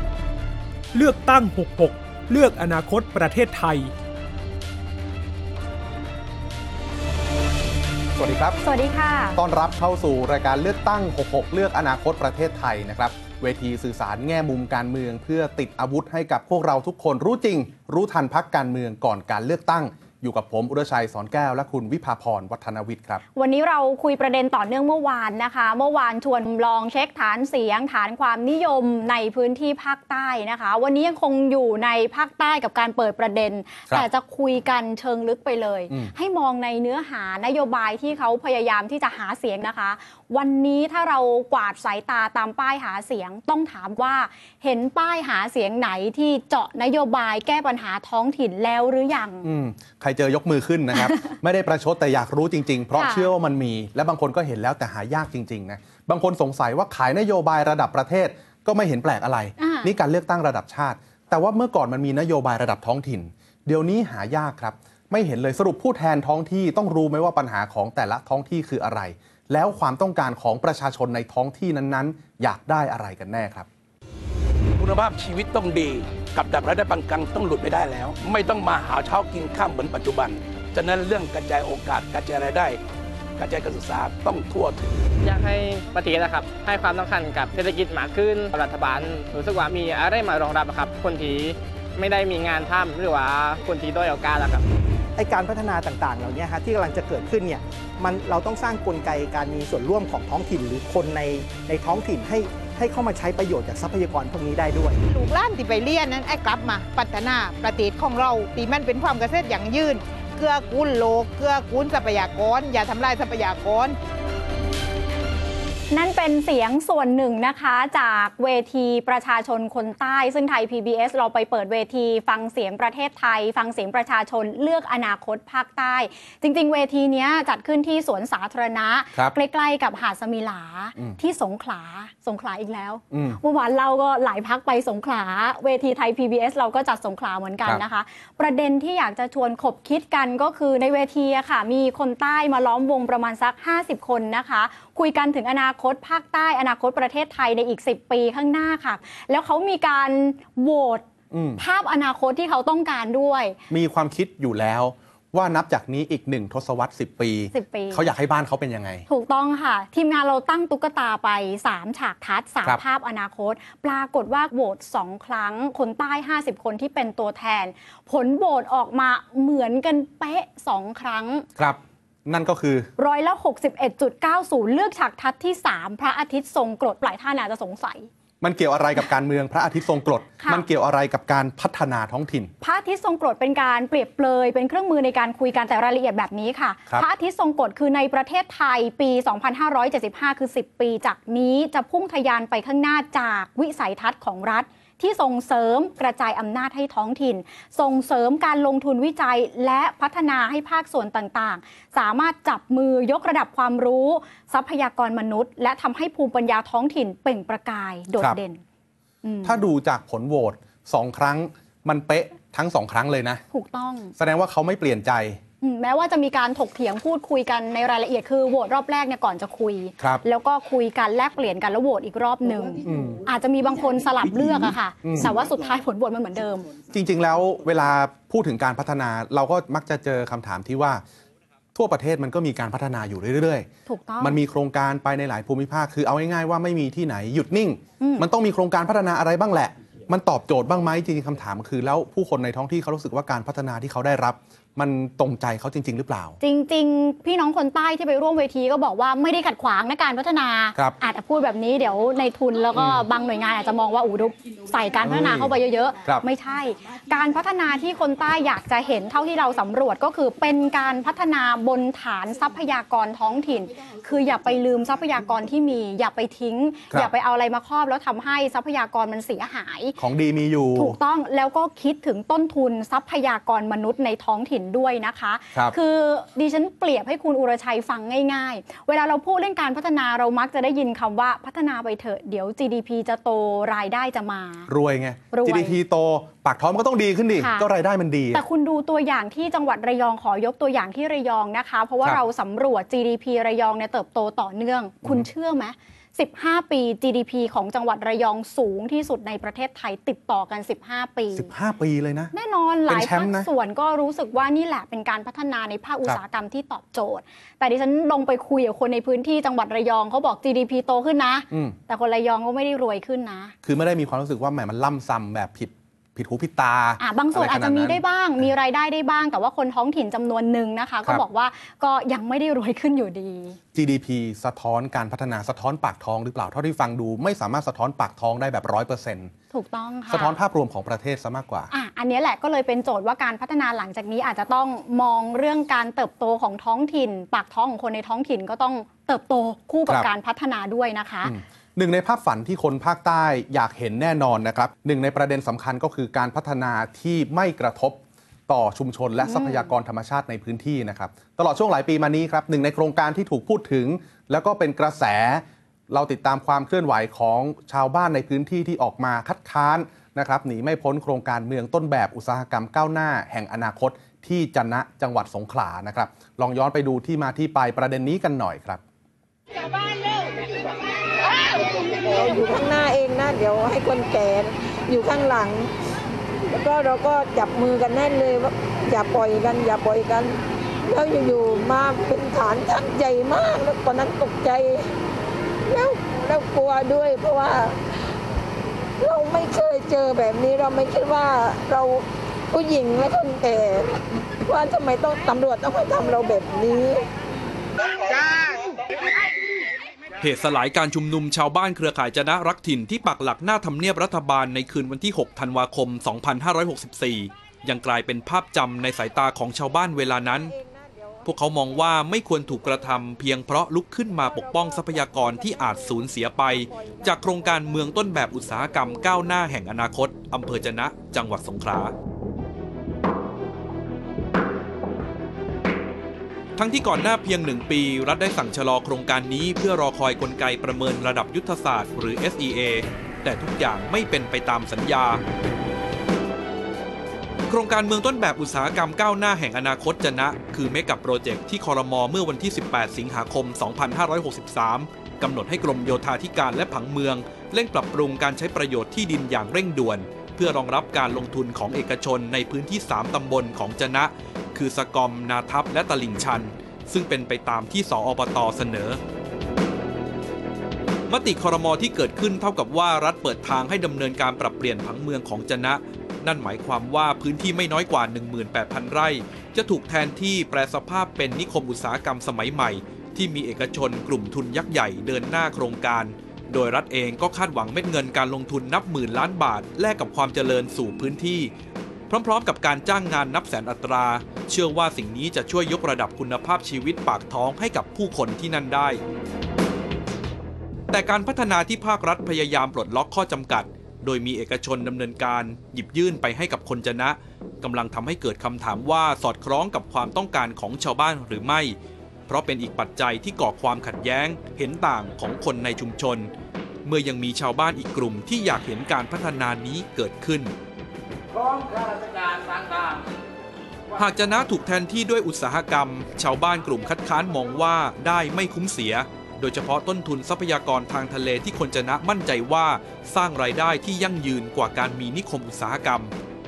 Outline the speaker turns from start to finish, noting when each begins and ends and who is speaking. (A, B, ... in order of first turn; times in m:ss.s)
0:00.9-0:03.9 A
0:08.1-0:08.6 B
0:08.6-0:09.4 C
0:09.4-0:23.2 B
0:23.3-0:49.5 C
0:49.4-1:13.7 B
0:51.0-0:51.3 C
0:52.9-0:53.3 C
0:59.6-0:59.9 C
1:14.8-1:22.8 D
1:23.4-1:24.9 D
1:25.2-1:34.6 E
1:35.2-1:45.0 F
1:45.1-1:54.0 G
1:55.9-2:31.0 C
2:13.1-2:13.4 B
2:31.3-2:31.6 B
2:31.6-2:33.6 C
2:33.7-2:39.0 B
2:37.5-2:38.1 C
2:39.1-2:51.4 C
2:51.6-2:52.9 B
2:53.0-2:58.1 C
2:58.4-3:02.5 B
3:02.6-3:28.6 C
3:29.2-3:29.6 C
3:29.4-3:33.4 B
3:33.5-3:34.1 C
3:34.2-3:35.4 B
3:35.6-3:46.7 C
3:42.8-3:43.2 B
3:45.0-3:45.3 B
3:46.9-3:51.0 B
3:51.7-3:53.7 B
3:53.9-3:54.4 C
3:54.2-4:06.4 B
3:58.0-3:58.3 C
4:06.4-4:30.0 C
4:12.7-4:13.1 B
4:15.0-4:16.2 B
4:30.0-4:31.0 B
4:30.7-4:44.7 C
4:44.7-4:48.4 B
4:45.3-4:45.8 C
4:47.4-4:47.7 C
4:48.3-5:01.5 C
5:01.3-5:02.3 B
5:02.3-5:13.5 C
5:02.9-5:03.5 B
5:11.5-5:11.8 B
5:13.6-5:18.0 B
5:17.0-5:23.6 C
5:23.7-5:29.3 B
5:29.5-5:30.3 C
5:30.1-5:31.7 B
5:31.7-5:41.3 C
5:41.2-6:08.8 B
5:49.2-5:49.7 C
6:11.9-6:15.7 H
6:16.5-6:24.9 H
6:25.7-6:27.8 H
6:29.0-6:37.1 H
6:40.2-6:50.5 I
6:50.0-6:51.4 H
6:51.2-7:01.9 I
6:54.1-6:57.8 H
6:58.7-6:59.1 H
7:06.6-7:15.2 I
7:17.5-7:39.0 I
7:41.1-8:01.5 I
8:02.1-8:09.0 I
8:10.9-8:21.8 I
8:22.3-8:26.3 I
8:26.8-8:30.5 I
8:34.0-8:46.1 I